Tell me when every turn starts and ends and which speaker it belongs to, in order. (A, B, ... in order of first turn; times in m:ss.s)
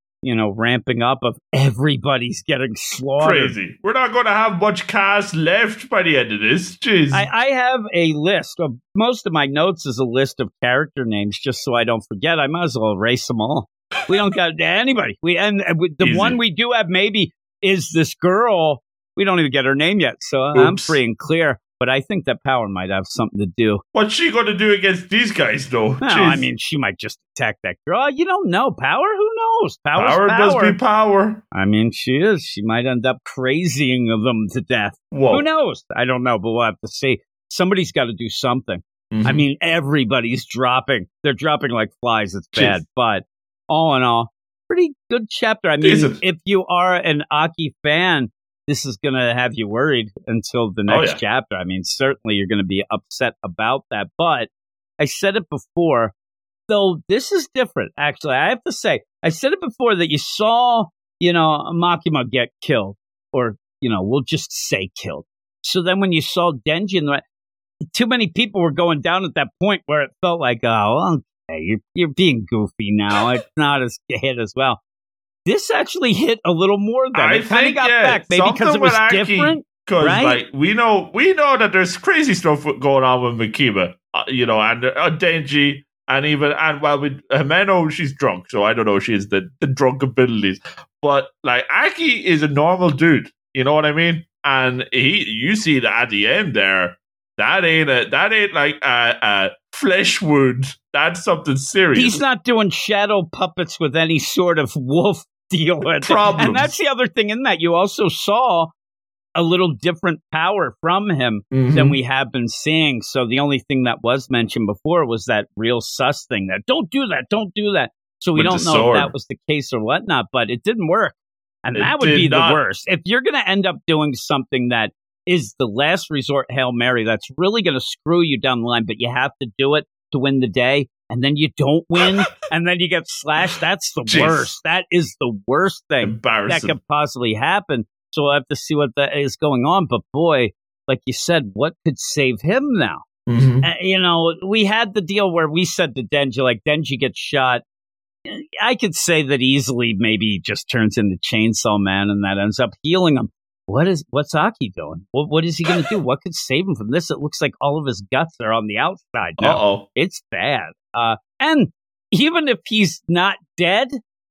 0:00.2-0:03.6 A
0:03.2-0:07.3 B
0:07.1-0:23.8 A
0:16.0-0:16.4 B
0:20.5-0:21.0 B
0:23.9-0:26.5 B
0:26.0-0:30.8 A
0:30.0-0:31.4 B
0:31.5-0:56.1 A
0:35.1-0:35.4 B
0:39.1-0:39.4 B
0:45.8-0:46.2 B
0:50.9-0:51.2 B
0:56.7-1:07.2 A
1:07.9-1:14.8 A
1:15.4-1:20.4 A
1:17.1-1:42.2 B
1:41.9-1:48.7 A
1:45.9-1:46.7 B
1:49.3-2:23.0 A
1:51.5-1:52.0 B
1:58.3-1:59.1 B
2:01.7-2:02.6 B
2:14.0-2:14.5 B
2:16.0-2:16.7 B
2:23.3-2:23.7 B
2:23.6-2:27.6 A
2:28.2-2:44.0 A
2:39.4-2:39.9 B